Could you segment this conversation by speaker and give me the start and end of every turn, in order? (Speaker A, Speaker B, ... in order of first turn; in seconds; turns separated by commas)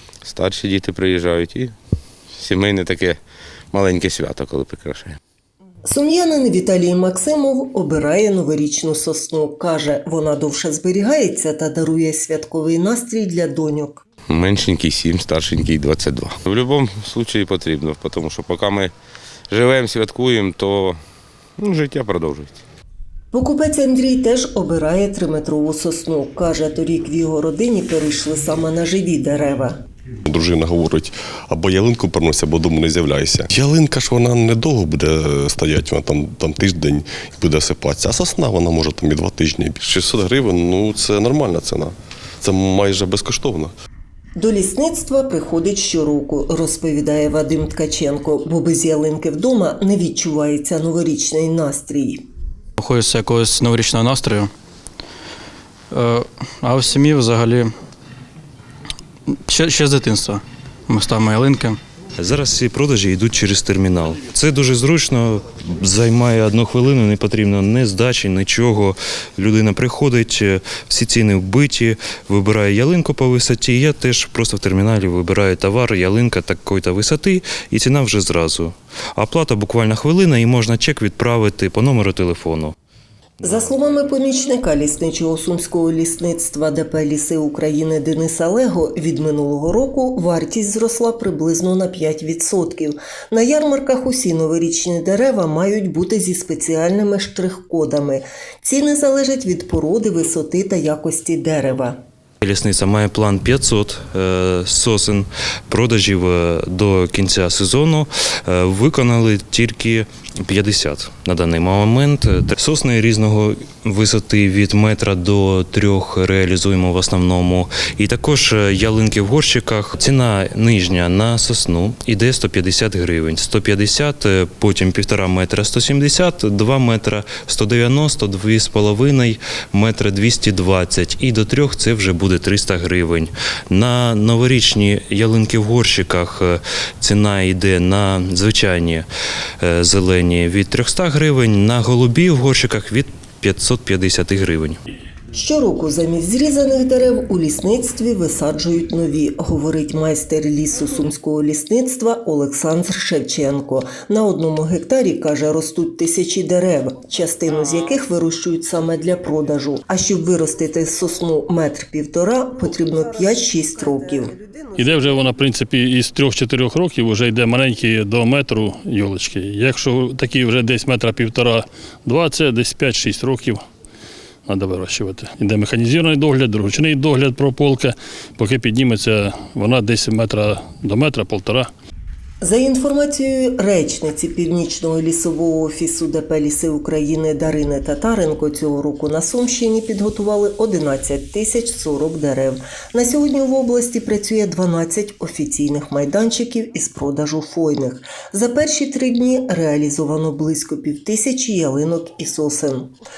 Speaker A: 0.2-1.7, Speaker A: 2.3-3.2, Speaker A: 3.7-5.1, Speaker B: 5.8-14.0, Speaker A: 14.3-18.9, Speaker A: 19.5-21.0, Speaker A: 21.6-22.6, Speaker B: 23.3-29.7, Speaker C: 30.2-43.7, Speaker B: 44.4-52.2, Speaker D: 52.8-54.5, Speaker D: 55.9-57.7, Speaker D: 59.5-61.8, Speaker E: 62.2-82.7, Speaker B: 83.4-102.0, Speaker E: 102.4-139.1, Speaker E: 139.6-144.8, Speaker B: 145.3-164.3, Speaker F: 164.7-173.6, Speaker F: 174.5-181.7, Speaker B: 182.4-202.9